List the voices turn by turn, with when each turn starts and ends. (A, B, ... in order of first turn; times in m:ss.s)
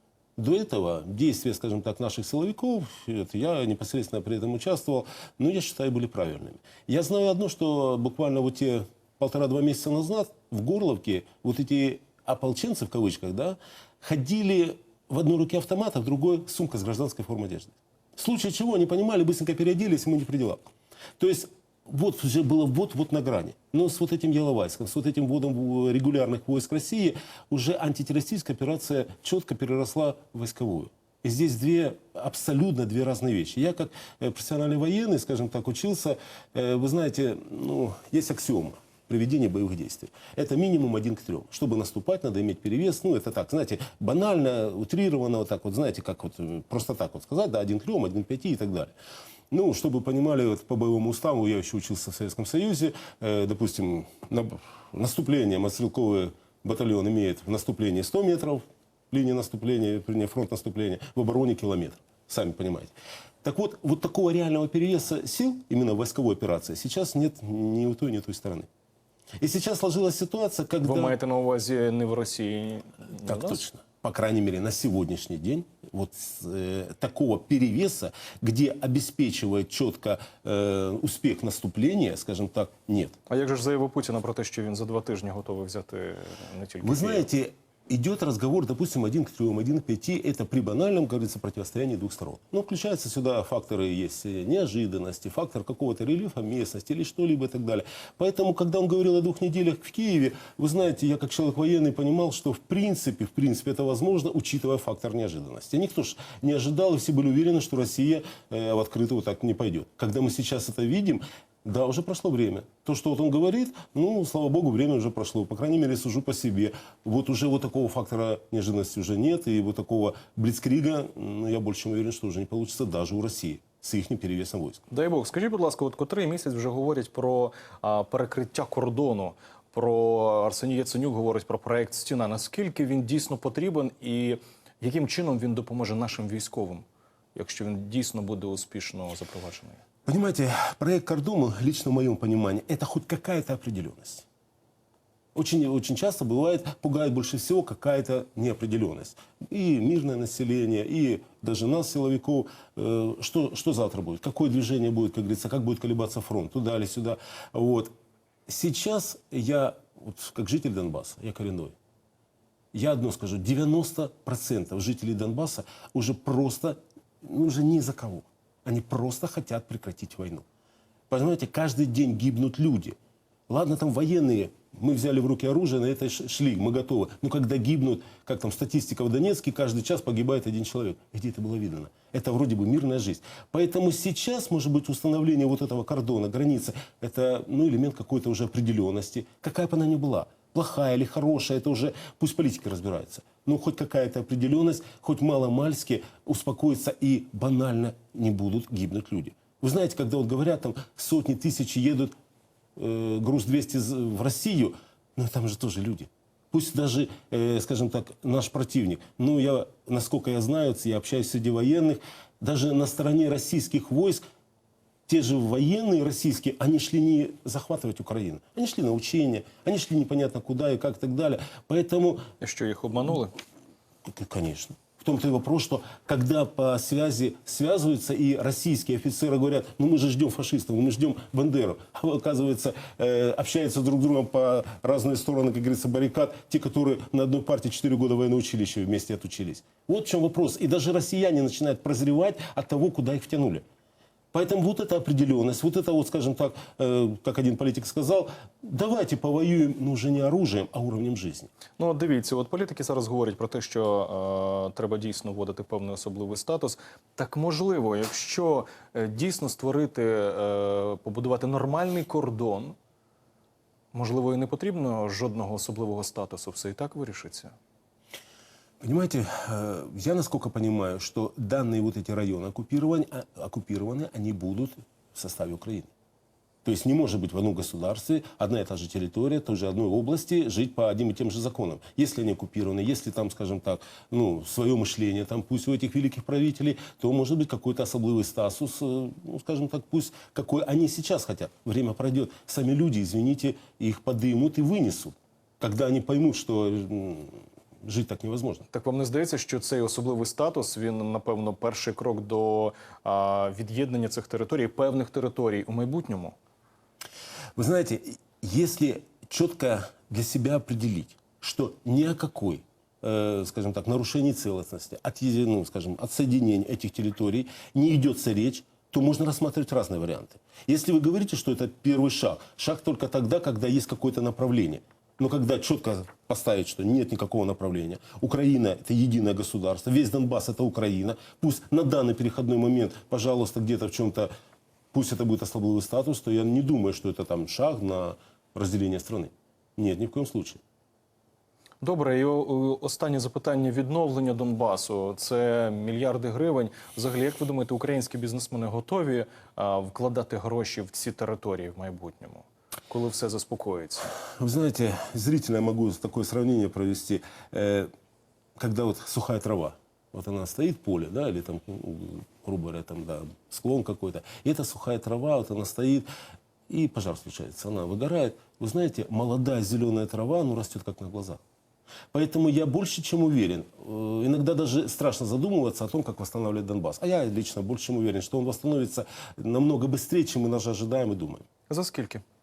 0:00.4-0:20.7 A
0:21.2-0:48.9 A
0:49.5-1:08.7 A
1:09.4-1:11.2 A
1:10.8-1:13.6 B
1:13.2-1:23.2 A
1:23.3-1:27.3 B
1:26.8-2:04.8 A
2:04.9-2:19.8 B
2:20.0-2:24.2 A
2:25.3-2:37.9 A
2:38.5-2:41.7 A
2:42.7-2:50.4 A
2:51.1-2:53.0 A
2:53.5-3:22.1 A
3:22.8-3:34.2 A
3:35.1-3:42.2 A
3:42.4-3:43.3 B
3:44.0-4:03.6 A
4:04.3-4:11.5 A
4:11.8-4:22.8 B
4:23.9-4:27.5 B
4:28.8-4:35.9 A
4:36.6-4:58.6 A
4:58.7-5:06.4 B
5:07.6-5:34.3 A
5:34.9-5:40.6 A
5:41.8-5:54.1 B
5:54.4-5:57.9 A
5:58.6-6:06.1 A
6:06.7-6:11.4 A
6:12.1-6:21.4 A
6:21.7-6:22.2 B